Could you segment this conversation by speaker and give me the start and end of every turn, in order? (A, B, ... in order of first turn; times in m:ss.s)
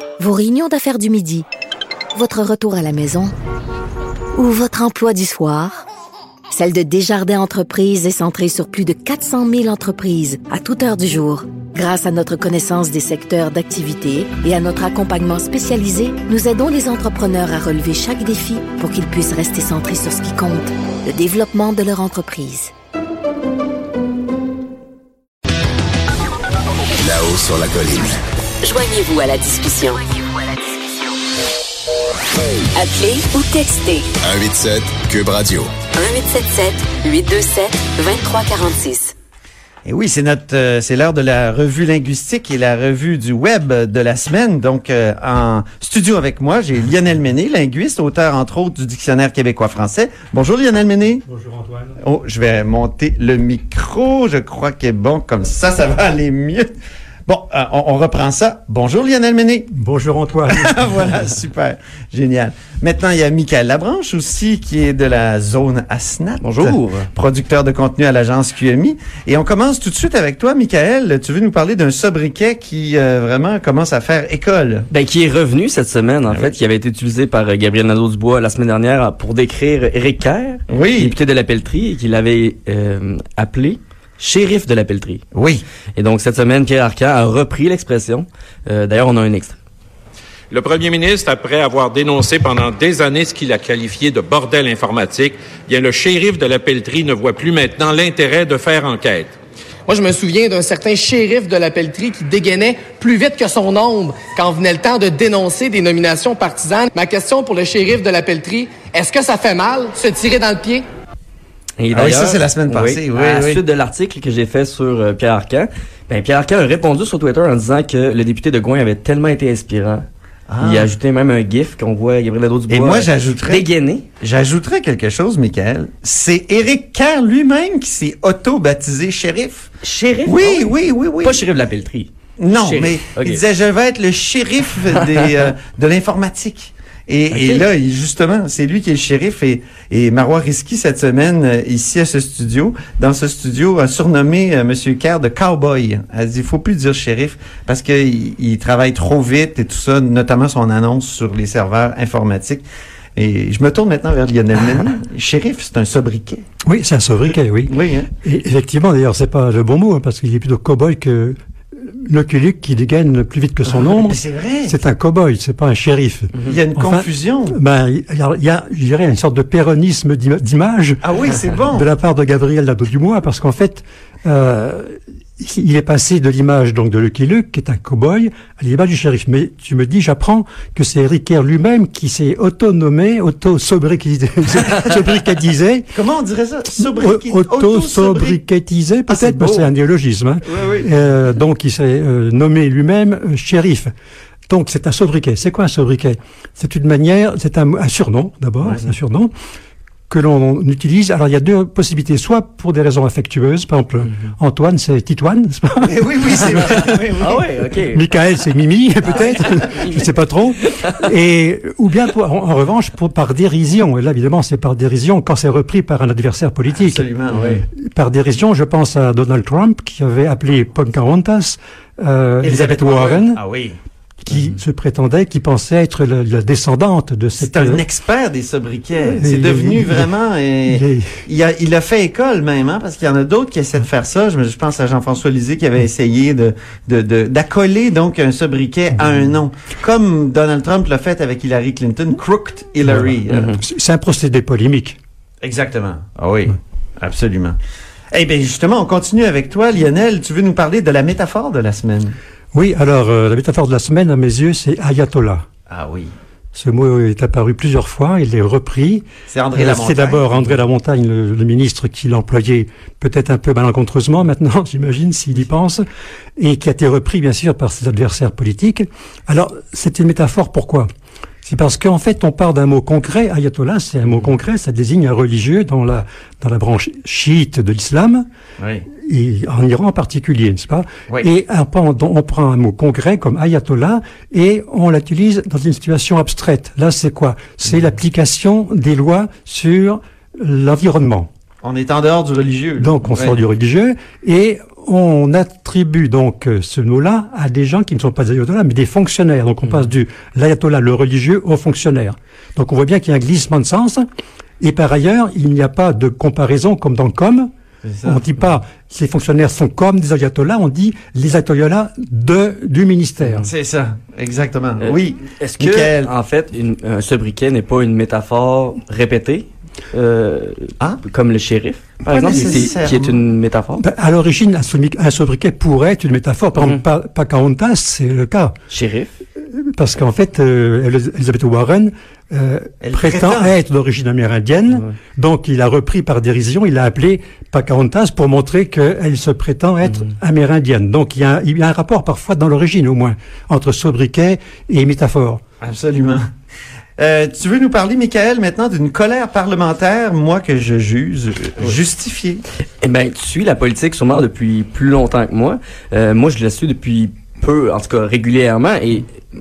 0:00.2-0:01.5 A
0:02.1-0:03.3 A
0:04.4-0:05.9 A
0:06.5-0:22.7 A
0:27.0-0:28.2 B
0:28.6-0:30.0 C
0:32.8-0:34.1 C
0:34.2-0:35.8 B
0:35.9-0:39.1 C
0:39.8-0:51.2 D
0:51.2-0:52.0 E
0:52.0-0:56.7 D
0:57.2-0:59.7 D
0:59.7-1:00.8 E
1:00.5-1:14.9 D
1:06.4-1:07.1 F
1:14.9-1:25.2 F
1:16.3-1:16.6 D
1:20.7-1:21.2 D
1:25.3-1:25.6 D
1:26.0-1:29.6 F
1:30.5-1:39.3 G
1:39.9-1:50.8 H
1:51.8-2:00.0 F
1:51.9-1:53.6 D
2:00.5-2:00.9 D
2:00.6-2:04.0 F
2:02.7-2:03.7 D
2:04.2-2:09.7 D
2:09.8-2:13.4 F
2:10.2-2:11.5 D
2:12.4-2:32.6 D
2:17.3-2:17.7 F
2:33.2-2:36.4 D
2:36.6-2:51.0 E
2:37.7-2:38.1 D
2:43.7-2:44.8 D
2:46.4-2:47.6 D
2:51.0-2:51.9 D
2:51.7-3:05.9 E
3:05.9-3:08.4 D
3:06.7-3:13.9 E
3:09.1-3:09.7 D
3:10.4-3:10.9 D
3:14.5-3:19.3 E
3:20.1-3:27.0 E
3:25.8-3:27.4 D
3:26.6-3:28.0 F
3:27.9-3:37.1 E
3:29.1-3:30.1 F
3:30.7-3:31.0 F
3:36.7-3:37.6 D
3:37.6-3:43.4 E
3:42.4-3:43.8 D
3:44.2-3:47.8 E
3:47.4-4:03.6 D
3:49.0-3:50.1 E
3:50.7-3:51.1 E
4:02.8-4:05.0 E
4:03.3-4:03.6 F
4:05.4-4:07.6 D
4:08.1-4:12.2 D
4:12.5-4:15.4 E
4:15.7-4:16.1 D
4:16.5-4:25.8 E
4:19.3-4:20.6 D
4:26.4-4:30.9 E
4:31.4-4:38.2 E
4:38.6-4:38.8 D
4:39.0-4:51.3 E
4:51.6-4:53.4 D
4:52.8-5:04.0 E
5:04.6-5:07.5 E
5:07.8-5:08.2 D
5:08.0-5:13.4 E
5:13.4-5:16.1 D
5:14.8-5:23.8 F
5:22.0-5:23.2 D
5:22.3-5:22.7 E
5:23.8-5:28.6 E
5:28.7-5:29.1 F
5:29.5-5:45.4 E
5:32.8-5:33.5 D
5:45.6-5:46.2 D
5:47.0-5:52.4 D
5:52.8-5:59.1 F